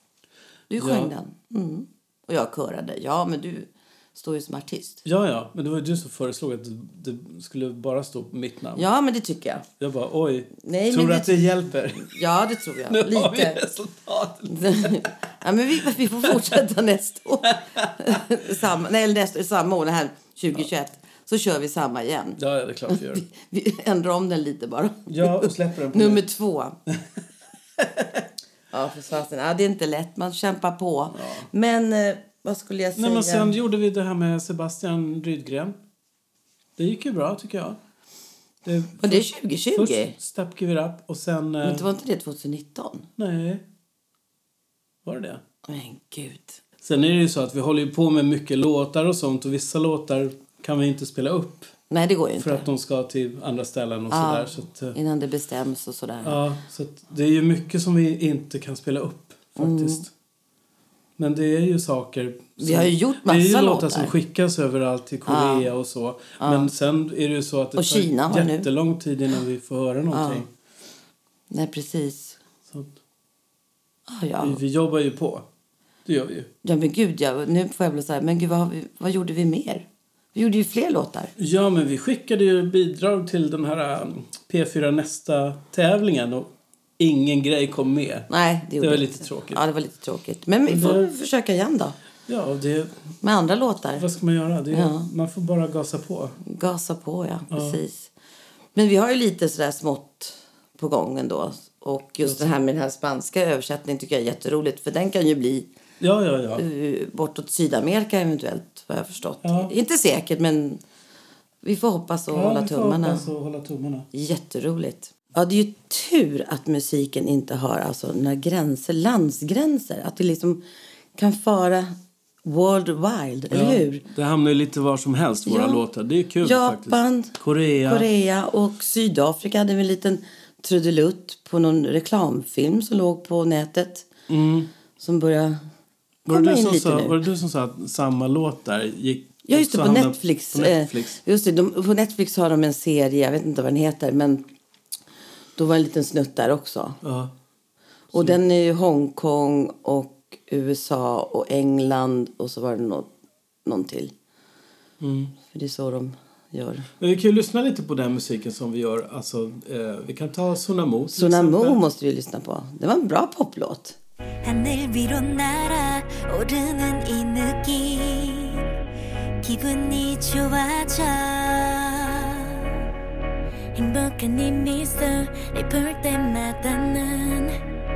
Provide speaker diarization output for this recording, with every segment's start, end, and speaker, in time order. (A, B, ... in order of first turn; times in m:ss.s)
0:00.7-0:05.0 A
0:00.8-0:01.1 B
0:05.0-0:08.9 B
0:08.8-0:09.7 A
0:09.8-0:12.1 B
0:10.6-0:13.6 A
0:12.9-0:15.2 B
0:14.5-0:26.8 A
0:15.9-0:16.6 B
0:17.5-0:18.2 B
0:22.4-0:23.3 B
0:25.1-0:26.2 B
0:27.8-0:28.2 B
0:28.7-0:33.5 A
0:31.1-0:31.5 B
0:33.0-0:35.8 B
0:36.8-0:37.8 B
0:38.6-0:41.9 B
0:39.0-0:40.1 A
0:41.6-0:43.1 A
0:43.2-0:43.6 B
0:45.0-0:45.4 B
0:45.7-0:46.6 A
0:46.8-0:51.7 B
0:51.9-0:52.7 A
0:52.4-0:55.0 B
0:54.1-0:56.4 A
0:56.2-1:00.1 B
0:59.6-1:00.1 A
1:01.2-1:10.5 B
1:02.6-1:04.1 A
1:05.3-1:05.7 A
1:06.4-1:06.7 A
1:07.8-1:08.7 A
1:10.1-1:10.4 A
1:11.5-1:12.4 A
1:12.7-1:13.0 B
1:14.1-1:14.6 A
1:14.4-1:15.5 B
1:16.1-1:16.5 B
1:16.6-1:21.3 A
1:21.4-1:29.6 B
1:28.3-1:32.0 A
1:30.7-1:31.1 B
1:32.3-1:33.0 B
1:33.2-1:34.1 A
1:34.0-1:36.4 B
1:34.7-1:35.1 A
1:36.4-1:38.1 A
1:37.5-1:37.8 B
1:38.8-1:45.7 A
1:42.2-1:42.5 B
1:46.0-1:46.6 B
1:46.6-1:50.8 A
1:49.4-1:49.7 B
1:51.6-1:53.3 A
1:52.3-1:54.1 B
1:54.1-2:00.6 A
2:01.2-2:04.0 A
2:03.5-2:08.1 B
2:05.4-2:05.8 A
2:06.4-2:14.1 A
2:14.3-2:14.7 B
2:15.0-2:15.6 A
2:16.3-2:17.2 A
2:16.3-2:21.2 B
2:19.5-2:24.4 A
2:25.6-2:27.0 A
2:27.0-2:27.3 B
2:28.1-2:28.4 B
2:28.1-2:33.1 A
2:33.6-2:34.1 A
2:35.0-2:35.3 B
2:35.5-2:36.9 A
2:37.0-2:41.8 B
2:41.2-2:44.0 A
2:44.4-2:48.6 C
2:49.4-2:52.7 C
2:53.8-2:57.6 C